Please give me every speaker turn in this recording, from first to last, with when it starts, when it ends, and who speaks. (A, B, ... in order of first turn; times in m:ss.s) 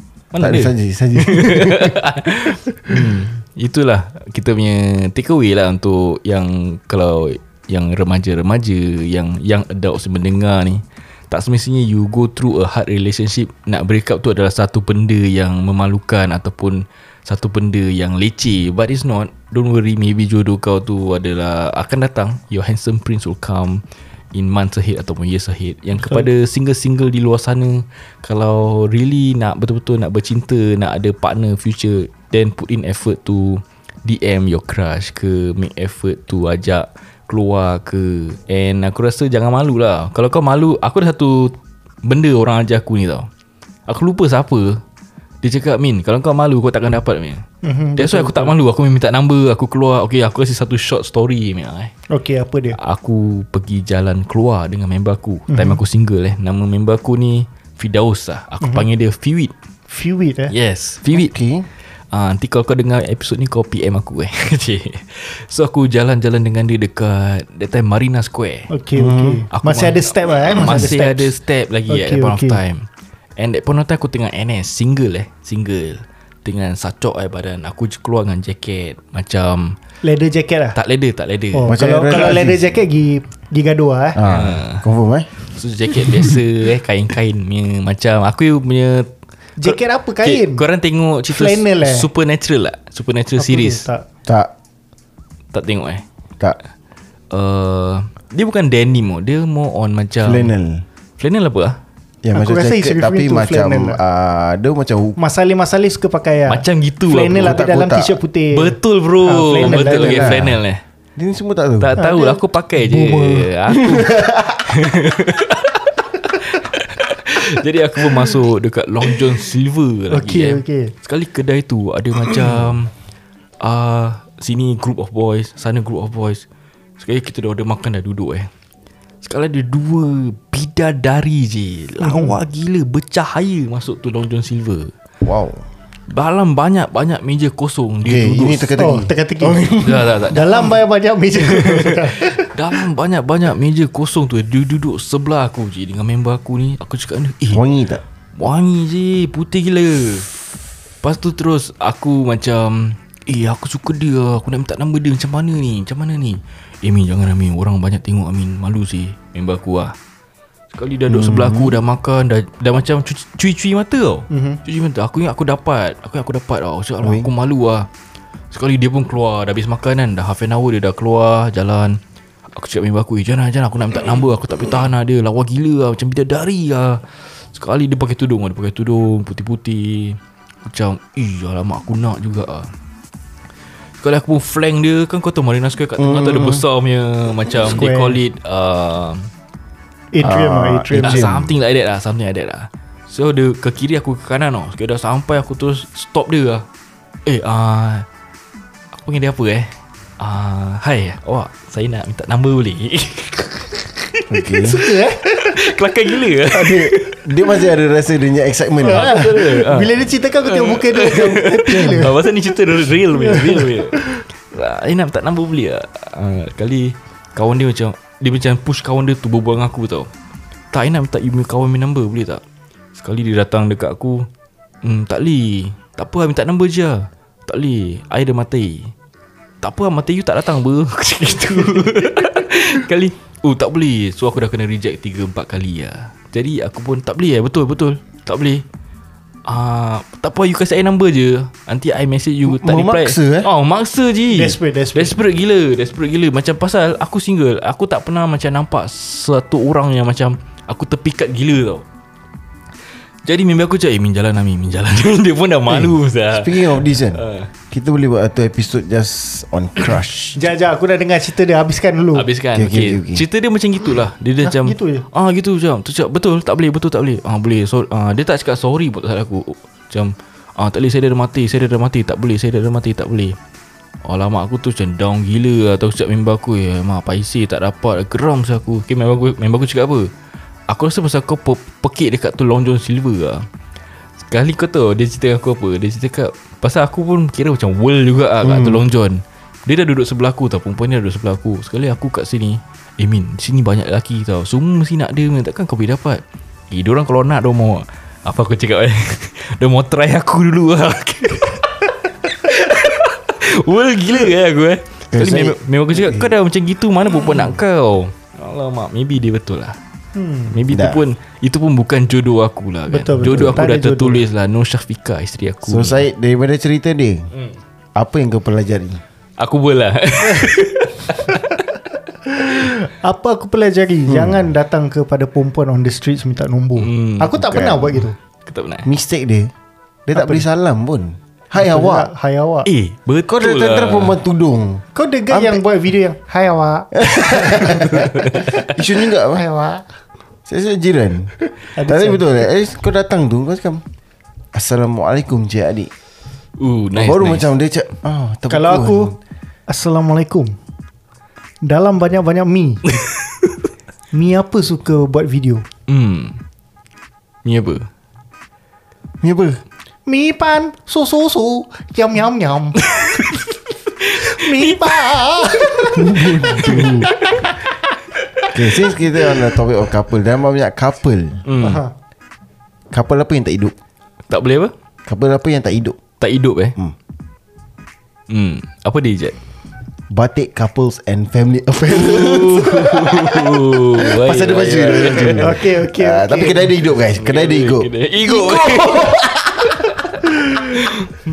0:00.3-0:23.8 A
0:00.4-0:02.0 B
0:02.9-0:03.1 B
0:24.3-0:43.3 A
0:43.9-0:44.8 A
0:45.4-0:47.4 A
0:47.6-0:48.5 C
0:48.0-0:51.9 A
0:52.1-0:52.8 C
0:52.7-0:59.5 A
0:55.5-0:55.8 C
0:59.9-1:00.5 C
1:00.5-1:01.3 A
1:01.1-1:01.7 B
1:02.1-1:08.7 A
1:08.7-1:11.3 C
1:08.9-1:09.4 B
1:09.5-1:12.8 A
1:11.9-1:12.6 C
1:13.4-1:19.8 A
1:20.0-1:20.8 C
1:20.7-1:21.8 A
1:21.5-1:24.2 C
1:21.7-1:22.7 B
1:24.1-1:25.3 B
1:24.2-1:24.8 A
1:25.5-1:29.1 A
1:29.6-1:30.6 C
1:29.6-1:33.8 A
1:31.3-1:32.1 C
1:33.4-1:34.0 C
1:34.2-1:34.5 B
1:35.5-1:36.0 A
1:37.3-1:40.5 A
1:40.2-1:40.8 B
1:41.2-1:41.8 A
1:42.2-1:45.2 B
1:42.3-1:44.0 C
1:45.2-1:50.5 C
1:46.5-1:47.6 A
1:47.3-1:48.2 B
1:48.5-1:50.8 A
1:49.6-1:50.6 B
1:51.2-1:52.0 B
1:51.8-2:02.9 A
1:52.0-1:53.5 C
1:53.8-1:54.8 B
2:00.1-2:00.9 C
2:03.6-2:06.4 A
2:07.0-2:08.5 A
2:09.2-2:14.9 A
2:12.0-2:12.3 C
2:15.2-2:15.6 B
2:16.1-2:18.7 A
2:18.0-2:20.3 B
2:18.8-2:19.7 C
2:19.8-2:20.7 A
2:20.3-2:22.8 C
2:21.3-2:27.6 A
2:27.5-2:28.0 B
2:28.3-2:30.3 A
2:31.0-2:39.9 A
2:40.7-2:47.9 A
2:41.1-2:41.8 B
2:44.3-2:44.6 C
2:47.0-2:47.3 B
2:48.5-2:52.0 A
2:52.5-2:57.0 A
2:57.5-3:02.7 A
3:04.0-3:09.3 A
3:06.0-3:06.6 B
3:07.5-3:08.2 C
3:10.1-3:11.3 C
3:10.2-3:11.5 B
3:11.0-3:16.6 A
3:17.2-3:18.0 A
3:18.9-3:24.4 A
3:24.3-3:24.8 B
3:24.6-3:25.8 C
3:25.1-3:27.3 A
3:26.5-3:29.4 B
3:28.8-3:32.3 C
3:28.8-3:40.1 A
3:33.1-3:34.2 C
3:40.7-3:42.4 A
3:42.9-3:44.3 A
3:44.8-3:48.9 A
3:49.6-3:58.6 A
3:59.4-4:11.8 A
4:02.4-4:03.5 B
4:04.3-4:05.2 C
4:13.2-4:17.5 A
4:15.7-4:20.4 B
4:20.4-4:22.3 C
4:22.1-4:33.4 A
4:22.5-4:23.2 B
4:24.4-4:25.0 C
4:34.0-4:40.1 A
4:40.7-4:43.4 A
4:44.3-5:09.8 A
4:48.4-4:48.8 B
5:05.1-5:06.3 B
5:10.1-5:10.6 C
5:10.5-5:16.0 A
5:10.7-5:11.0 B
5:12.9-5:14.2 C
5:13.2-5:13.6 B
5:15.6-5:17.3 B
5:18.0-5:19.0 B
5:19.4-5:21.4 A
5:21.3-5:21.5 C
5:22.3-5:28.2 C
5:24.1-5:24.4 B
5:26.8-5:28.9 A
5:27.5-5:27.8 B
5:28.8-5:29.5 B
5:30.1-5:32.1 B
5:30.1-5:30.4 C
5:31.5-5:32.7 C
5:32.6-5:34.2 A
5:33.3-5:35.6 B
5:34.9-5:39.8 C
5:36.9-5:39.4 B
5:40.4-5:43.8 B
5:41.7-5:42.4 C
5:44.5-5:45.9 B
5:46.6-5:47.5 A
5:46.9-5:49.1 B
5:48.5-5:49.1 C
5:49.7-5:50.5 C
5:51.6-5:53.0 C
5:53.0-5:53.5 A
5:54.1-5:55.6 C
5:55.9-5:56.4 A
5:57.4-5:57.9 A
5:59.2-5:59.6 B
6:00.1-6:03.3 C
6:02.8-6:03.4 A
6:04.0-6:07.2 C
6:04.6-6:04.9 A
6:05.9-6:07.1 B
6:06.6-6:07.5 A
6:08.3-6:09.6 A
6:08.5-6:11.5 B
6:11.5-6:11.8 A
6:11.6-6:11.9 C
6:12.9-6:13.7 B
6:14.3-6:14.7 A
6:15.1-6:16.0 B
6:16.2-6:16.8 A
6:18.3-6:19.4 A
6:20.1-6:30.3 B
6:21.9-6:25.5 A
6:25.3-6:26.7 C
6:27.2-6:31.2 A